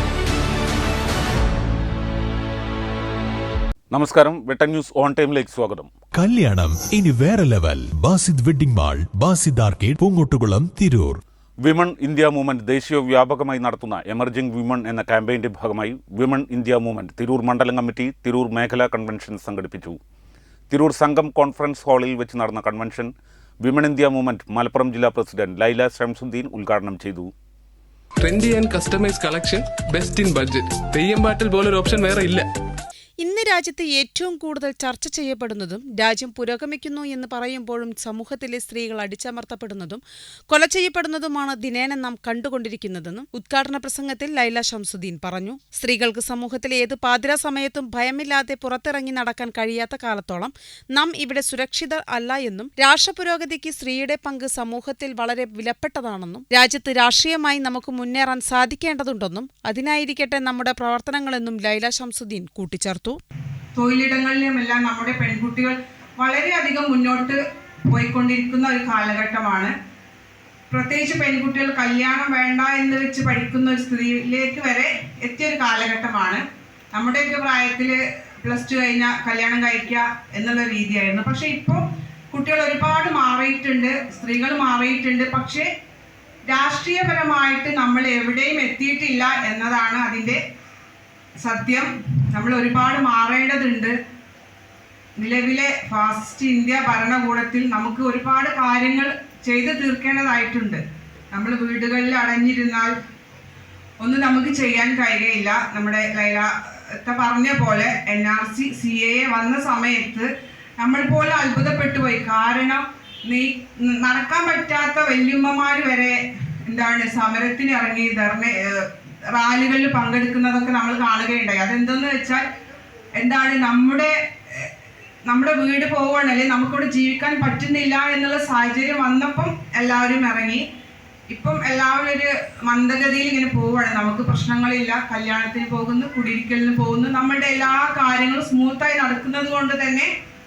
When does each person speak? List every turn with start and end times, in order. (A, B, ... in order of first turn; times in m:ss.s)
0:03.9-0:05.9 A
0:06.1-0:11.2 B
0:11.6-0:20.0 A
0:20.7-0:27.3 A
0:28.2-0:32.5 C
0:33.2-1:03.2 D
1:03.8-1:09.7 E
1:10.7-1:16.4 E
1:17.0-1:25.7 E
1:26.5-1:30.4 E
1:31.4-1:33.9 E
1:35.2-1:40.8 E
1:41.3-1:42.9 E
1:44.0-1:46.5 E
1:47.0-1:50.3 E
1:50.8-2:02.4 E
2:03.2-2:04.7 E
2:05.3-2:10.6 E
2:11.3-2:20.1 E